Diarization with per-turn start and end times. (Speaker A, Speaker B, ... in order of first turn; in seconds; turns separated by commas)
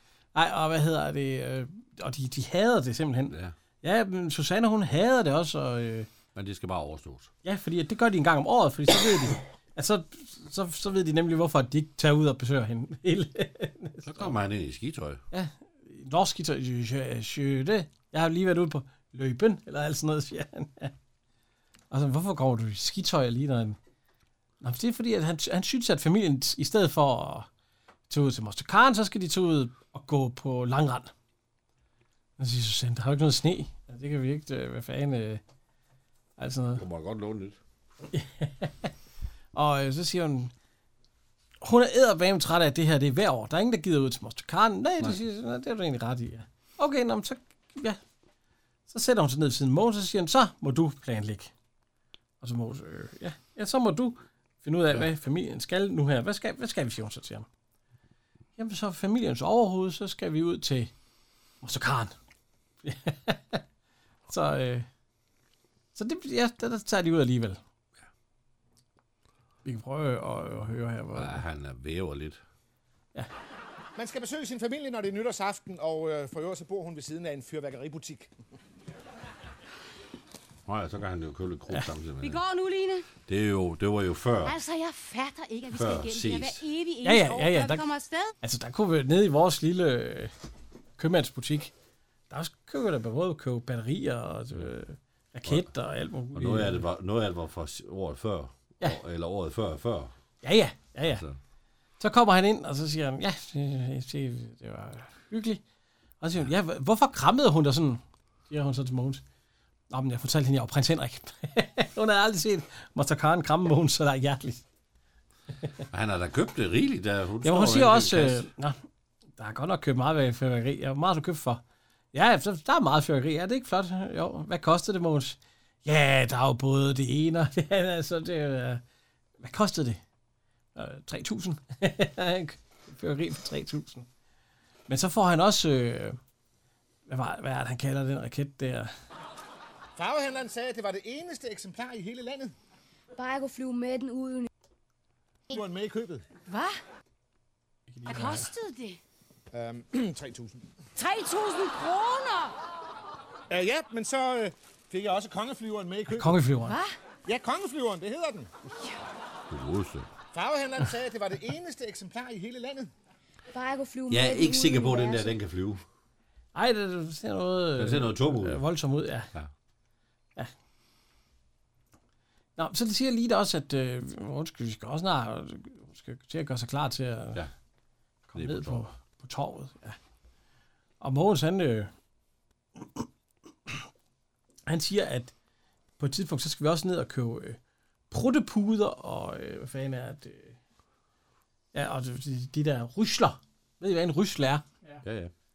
Speaker A: 0.3-6.1, Speaker B: 3.3-3.5, Speaker B: 6.3-7.3, Speaker A: 7.4-14.3, Speaker B: 14.0-15.2, Speaker A: 15.3-20.9, Speaker A: 21.9-23.8, Speaker A: 24.6-27.5, Speaker A: 28.1-31.1, Speaker A: 32.4-35.4, Speaker A: 36.4-36.8, Speaker B: 36.8-37.6, Speaker A: 38.1-38.9, Speaker A: 39.5-40.5, Speaker A: 41.6-48.0, Speaker A: 48.9-51.5, Speaker A: 52.4-57.5, Speaker A: 58.6-60.9, Speaker A: 61.6-62.1, Speaker A: 62.8-63.6, Speaker A: 64.3-64.9, Speaker A: 66.0-67.6, Speaker A: 69.7-71.4, Speaker B: 71.1-72.4, Speaker C: 74.0-78.3, Speaker B: 80.7-82.4, Speaker D: 82.2-83.1, Speaker B: 83.3-84.6, Speaker D: 84.4-88.3, Speaker B: 85.7-86.7, Speaker A: 87.0-87.8, Speaker A: 88.4-90.3, Speaker A: 91.0-91.7, Speaker A: 92.3-96.8, Speaker B: 96.3-100.1, Speaker A: 100.4-101.2, Speaker B: 101.1-101.4, Speaker A: 102.0-105.6, Speaker A: 106.2-109.2, Speaker A: 109.9-114.6, Speaker B: 115.9-118.5, Speaker A: 117.4-118.8, Speaker A: 119.4-121.6, Speaker A: 122.1-128.8, Speaker A: 129.4-130.0, Speaker A: 130.8-134.1, Speaker A: 134.9-136.2, Speaker A: 137.1-138.9, Speaker C: 140.0-142.5, Speaker E: 143.2-144.5, Speaker C: 145.5-146.2, Speaker D: 146.5-146.8, Speaker A: 147.9-148.5, Speaker D: 148.1-149.0, Speaker C: 149.5-150.7, Speaker D: 151.0-152.6, Speaker C: 153.5-156.4, Speaker A: 156.1-156.8, Speaker D: 156.7-156.9, Speaker C: 157.3-158.5, Speaker B: 159.5-160.1, Speaker C: 160.3-162.9, Speaker E: 163.5-165.3, Speaker B: 164.1-165.8, Speaker A: 166.6-169.3, Speaker B: 167.8-168.6, Speaker A: 172.6-177.4, Speaker A: 178.3-180.0, Speaker B: 178.3-178.9, Speaker A: 181.0-181.9, Speaker A: 182.8-183.1, Speaker A: 184.7-185.3, Speaker A: 186.0-187.6, Speaker A: 188.1-190.6, Speaker A: 191.7-194.6, Speaker B: 195.0-195.3